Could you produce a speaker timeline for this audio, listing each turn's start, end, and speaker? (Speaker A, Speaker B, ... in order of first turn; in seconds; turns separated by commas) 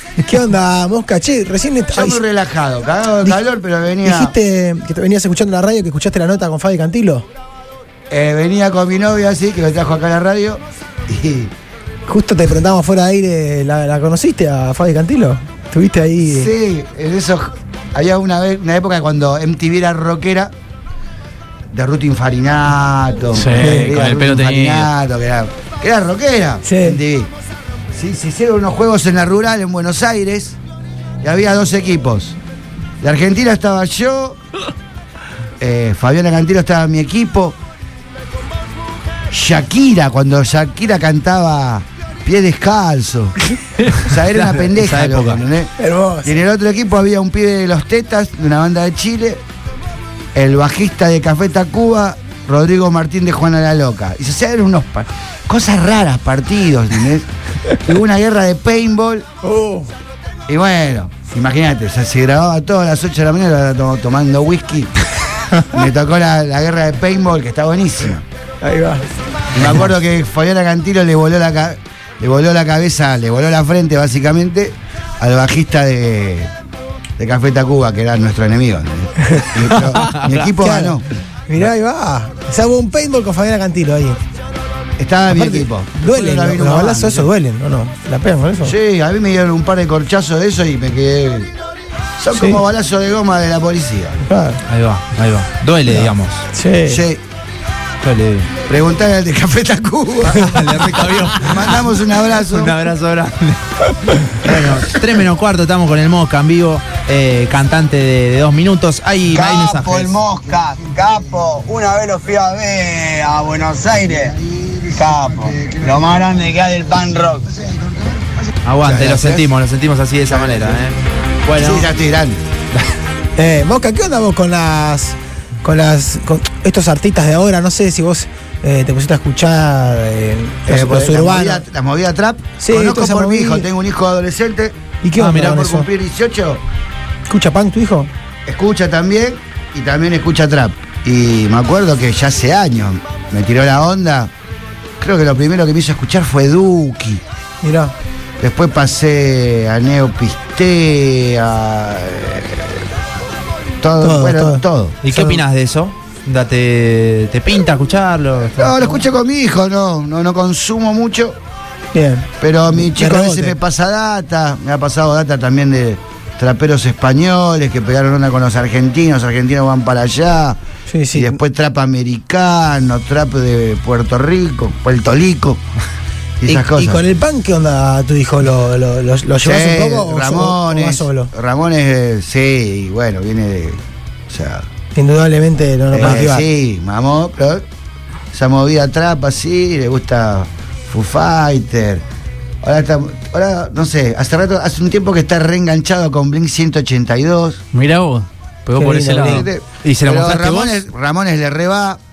Speaker A: 0.2-2.2, Speaker B: 1.9-4.3, Speaker A: 4.0-7.3, Speaker B: 8.1-11.5, Speaker A: 12.1-16.5, Speaker B: 16.2-20.5, Speaker B: 21.7-27.3, Speaker C: 23.3-24.9, Speaker A: 23.6-23.9, Speaker A: 26.6-27.0, Speaker B: 27.9-30.6, Speaker B: 31.2-32.4, Speaker B: 33.0-34.4, Speaker B: 35.6-37.6, Speaker B: 39.3-43.4, Speaker B: 43.9-45.7, Speaker D: 44.7-45.4, Speaker A: 45.8-46.3, Speaker B: 46.2-49.4, Speaker B: 50.4-57.3, Speaker B: 57.8-59.3, Speaker A: 59.4-59.9, Speaker B: 60.5-64.9, Speaker B: 65.7-68.2, Speaker A: 68.6-69.0, Speaker B: 69.5-76.5, Speaker B: 77.2-81.1, Speaker D: 80.0-80.4, Speaker A: 80.6-81.0, Speaker A: 81.5-84.2, Speaker B: 85.0-87.3, Speaker A: 85.3-88.8, Speaker B: 88.6-91.5, Speaker B: 92.2-94.2, Speaker A: 92.3-92.6, Speaker A: 94.3-94.6, Speaker D: 94.7-96.5, Speaker A: 95.9-97.0, Speaker B: 96.8-97.2, Speaker D: 98.0-98.5, Speaker B: 98.7-102.8, Speaker D: 100.3-101.8, Speaker D: 102.5-103.6, Speaker D: 104.1-110.2, Speaker E: 109.3-114.3, Speaker B: 110.4-111.3, Speaker B: 113.9-116.6, Speaker E: 114.9-117.5, Speaker B: 117.4-119.5, Speaker D: 118.7-121.9, Speaker B: 120.3-120.9, Speaker B: 121.6-122.4, Speaker A: 123.4-131.6, Speaker B: 130.7-134.8, Speaker A: 132.6-133.7, Speaker A: 135.0-135.9, Speaker D: 135.2-135.6, Speaker B: 135.3-136.6, Speaker A: 137.3-138.1, Speaker B: 138.5-144.3, Speaker B: 145.0-147.2, Speaker A: 147.6-147.9, Speaker B: 148.4-152.8, Speaker B: 153.8-155.0, Speaker A: 154.0-155.4, Speaker D: 155.0-158.8, Speaker B: 158.6-161.4, Speaker A: 161.9-163.6, Speaker B: 162.4-170.6, Speaker A: 170.9-171.4, Speaker B: 171.1-175.6, Speaker B: 176.4-177.0, Speaker A: 176.5-181.3, Speaker B: 179.4-184.7, Speaker A: 184.9-186.5, Speaker B: 185.9-187.7, Speaker B: 188.3-192.0, Speaker B: 192.6-197.6, Speaker C: 197.7-199.5, Speaker A: 198.8-199.5, Speaker B: 199.2-202.0, Speaker D: 199.8-200.8